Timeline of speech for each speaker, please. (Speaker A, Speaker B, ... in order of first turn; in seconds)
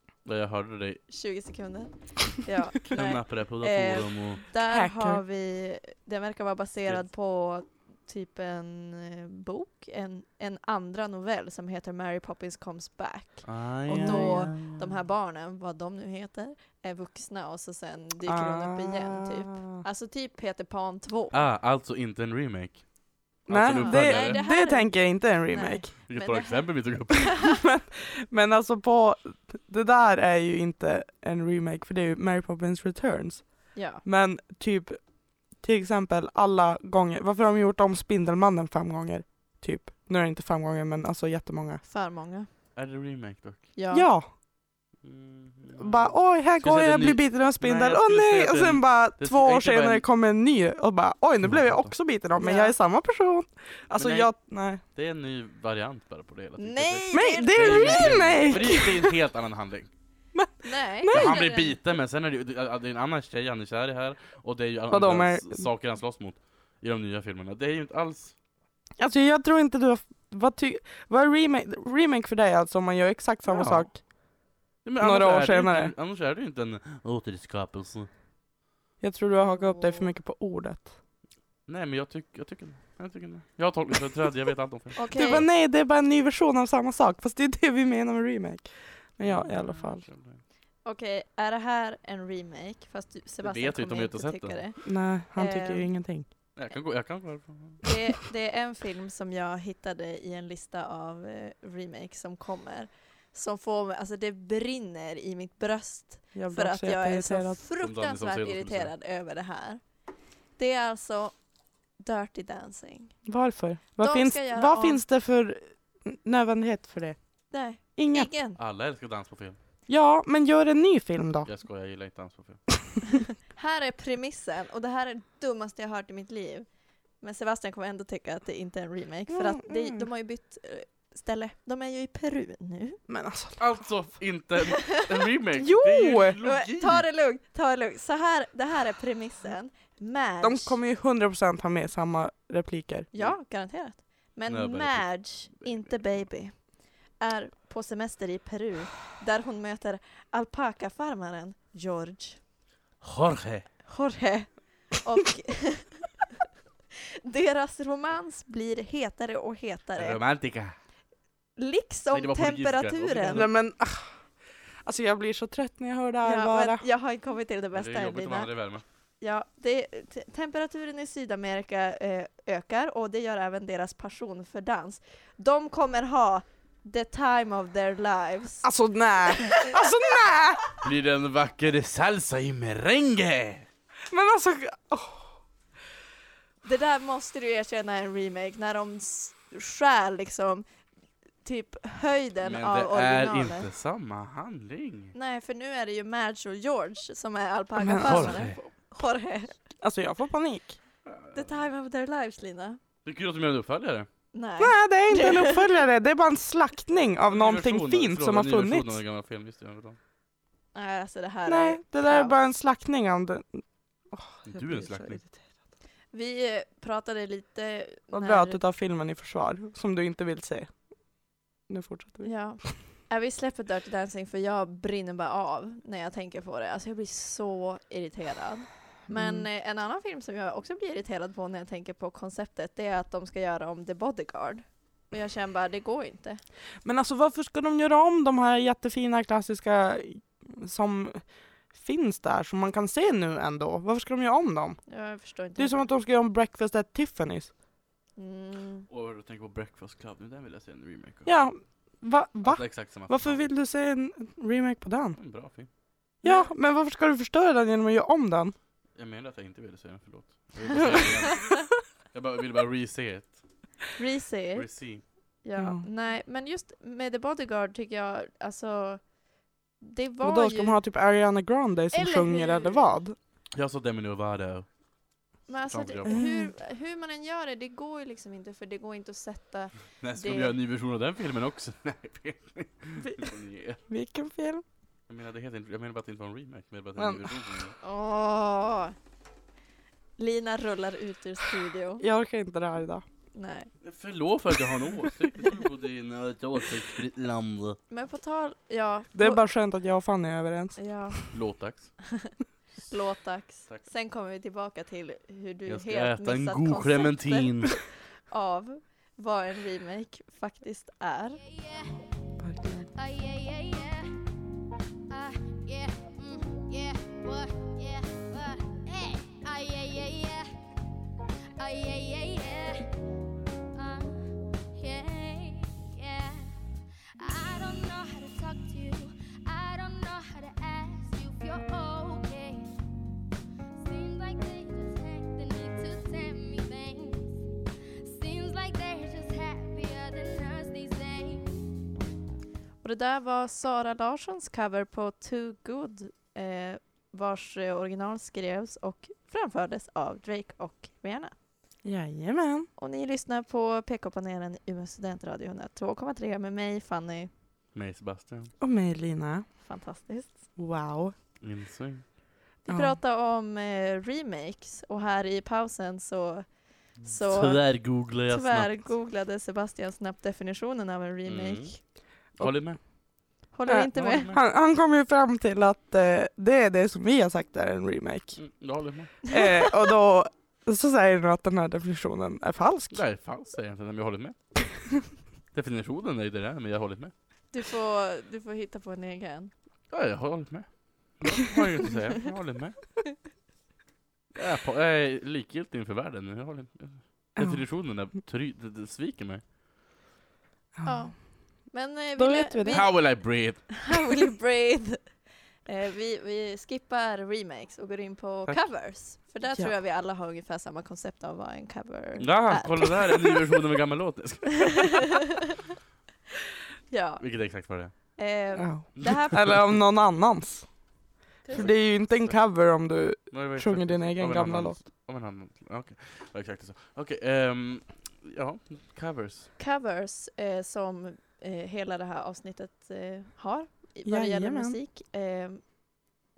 Speaker A: 0.2-1.1, 2.9-4.5, 13.5-14.9, 21.3-24.4, 26.1-27.5, 42.8-43.7, 45.0-50.0, 51.5-51.9, 54.0-59.9, 61.1-68.3, 73.5-74.0, 74.8-78.1, 81.7-85.5, 89.2-90.4, 93.4-94.7, 96.5-97.9, 107.8-108.9, 118.6-119.6, 121.5-122.8, 133.6-137.1, 144.5-145.9, 153.0-153.7, 160.0-160.8, 162.1-163.5, 167.7-168.8, 180.8-183.7, 192.4-195.1, 198.0-198.6, 201.1-201.6, 203.1-204.1, 207.3-210.0, 214.4-215.2, 248.9-251.3, 252.4-253.5, 255.2-255.7, 258.9-263.5, 264.6-265.0, 273.5-274.8, 275.7-276.2, 280.0-283.8, 285.1-287.8, 293.8-297.8, 301.3-302.1, 303.5-303.9, 305.7-307.8, 357.7-358.5, 361.4-362.2, 367.0-368.9, 371.3-372.8, 373.9-374.4, 378.4-379.2, 382.9-387.1, 389.9-393.0, 394.4-399.4, 402.7-403.9, 412.2-415.2, 417.2-418.2, 419.0-419.2, 421.6-422.4, 423.3-429.5
Speaker B: 1.1-21.4, 23.8-27.3, 33.7-34.0, 41.9-42.5, 43.8-44.1, 52.4-52.8, 56.6-58.8, 60.6-61.8, 79.4-80.1, 85.0-85.5, 90.8-95.9, 97.8-109.8, 110.6-111.4, 112.0-113.2, 114.0-115.0, 117.5-118.6, 123.5-126.7, 127.2-133.0, 136.4-140.8, 143.1-152.4, 153.9-156.1, 157.2-160.2, 161.6-163.5, 166.2-168.5, 169.2-178.7, 186.6-190.7, 191.4-193.7, 195.1-199.6, 201.3-202.8, 204.3-205.6, 210.7-212.4, 216.1-218.6, 222.2-236.4, 244.9-245.9, 248.2-248.9, 256.2-256.5, 264.0-269.1, 269.8-270.8, 271.9-272.9, 275.5-280.6, 287.8-288.9, 290.2-292.0, 293.3-293.7, 297.9-299.4, 300.8-302.3, 302.9-311.4, 342.8-351.3, 352.8-357.3, 359.6-360.4, 362.7-371.8, 373.5-374.3, 387.5-389.5, 400.9-413.4, 416.9-417.5, 418.2-419.4, 421.4-421.7, 429.6-435.8
Speaker C: 4.7-5.2, 13.9-14.5, 18.3-19.8, 23.5-25.9, 27.5-41.8, 43.9-44.3, 45.8-54.8, 57.1-59.1, 60.4-61.4, 64.9-65.7, 69.0-74.0, 75.0-75.9, 79.0-81.0, 85.1-90.0, 94.8-96.3, 106.3-107.6, 113.3-117.2, 118.0-118.3, 119.9-121.5, 129.3-130.1, 133.1-133.8, 135.6-136.4, 140.4-143.1, 163.3-164.2, 164.8-166.8, 178.6-180.7, 184.1-185.4, 197.8-198.5, 199.8-200.8, 204.6-209.0, 211.5-215.4, 218.1-220.8, 221.7-222.7, 229.1-229.5, 236.8-244.8, 245.6-247.5, 251.3-255.2, 256.2-258.5, 265.6-265.8, 270.2-273.2, 276.1-276.5, 283.9-284.6, 287.0-287.4, 292.0-293.0, 299.1-301.2, 312.4-312.9, 351.8-352.7, 358.6-359.5, 360.6-361.1, 362.7-363.0, 372.4-372.9, 373.7-378.4, 379.2-383.0, 397.4-397.6, 400.8-401.3, 402.2-402.9, 418.6-424.8, 434.1-434.8
Speaker D: 311.4-312.1, 312.8-314.1, 315.1-320.5, 321.6-322.9, 323.7-326.5, 327.2-332.7, 333.7-337.5, 338.0-341.7